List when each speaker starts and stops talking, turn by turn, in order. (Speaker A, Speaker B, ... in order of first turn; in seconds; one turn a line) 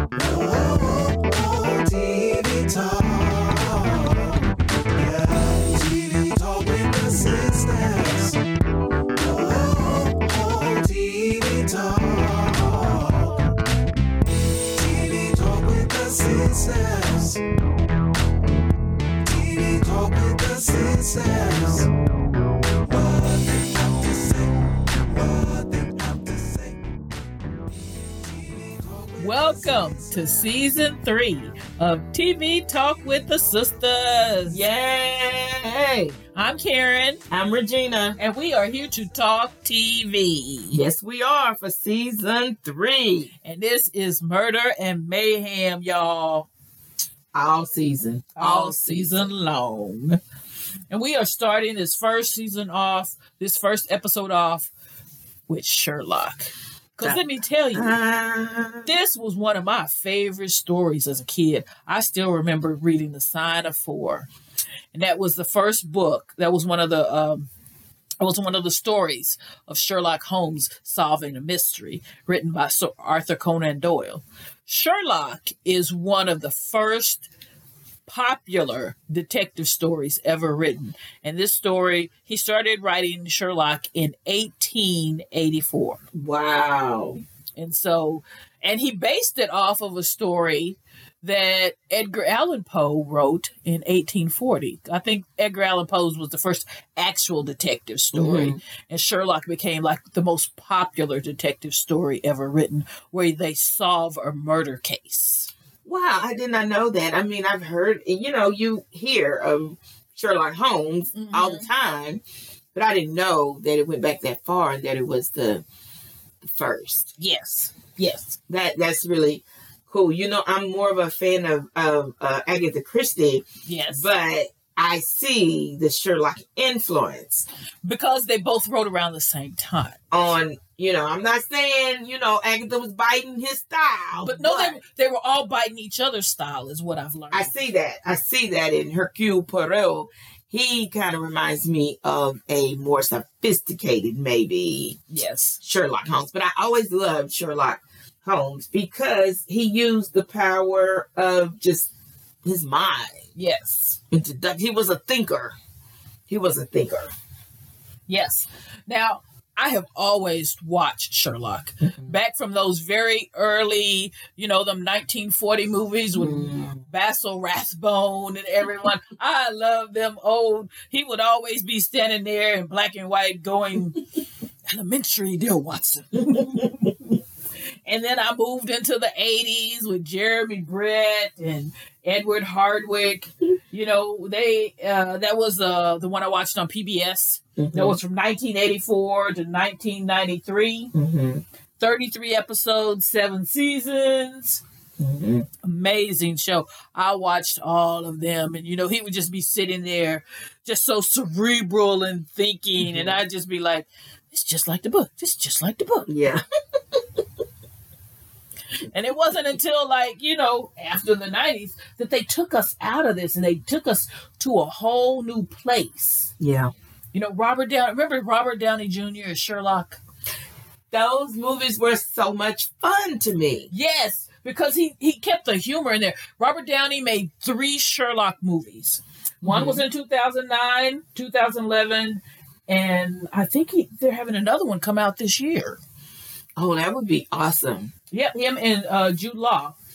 Speaker A: 0.1-4.3
Speaker A: 4.9-8.4
Speaker A: 9.2-13.4
Speaker A: 14.7-17.4
Speaker A: 19.2-21.9
Speaker A: 22.8-26.8
Speaker A: 28.2-30.6
Speaker B: 29.2-34.6
Speaker C: 34.5-36.1
Speaker B: 36.3-37.2
Speaker C: 37.3-38.2
Speaker B: 38.2-40.8
Speaker C: 40.7-43.3
Speaker B: 43.4-46.5
Speaker C: 47.3-49.3
Speaker B: 48.4-50.2
Speaker B: 50.9-54.7
Speaker B: 55.5-58.0
Speaker C: 57.7-58.9
Speaker B: 58.8-64.3
Speaker B: 64.9-67.5
Speaker B: 68.2-77.2
Speaker B: 78.0-86.0
Speaker C: 86.1-87.2
Speaker B: 87.6-105.5
Speaker C: 98.1-98.6
Speaker C: 105.8-112.2
Speaker B: 111.1-111.7
Speaker C: 112.7-115.6
Speaker C: 116.5-117.1
Speaker B: 117.2-118.4
Speaker C: 118.5-127.5
Speaker B: 123.7-124.1
Speaker B: 127.8-130.0
Speaker C: 130.1-134.8
Speaker B: 134.2-137.5
Speaker C: 137.3-145.0
Speaker B: 145.1-145.6
Speaker C: 145.6-151.9
Speaker C: 152.4-153.2
Speaker B: 153.3-154.0
Speaker C: 154.1-155.6
Speaker C: 156.3-157.1
Speaker B: 158.1-174.0
Speaker C: 166.2-166.8
Speaker B: 174.7-176.9
Speaker B: 177.9-190.9
Speaker C: 187.6-188.0
Speaker C: 190.9-191.4
Speaker B: 191.8-194.6
Speaker C: 195.0-195.5
Speaker B: 195.6-206.1
Speaker C: 202.8-203.2
Speaker C: 206.1-206.4
Speaker B: 208.9-216.3
Speaker C: 216.4-216.7
Speaker B: 217.1-220.0
Speaker C: 220.9-223.7
Speaker B: 223.7-235.8
Speaker C: 229.5-229.8
Speaker C: 236.6-237.9
Speaker B: 238.1-239.7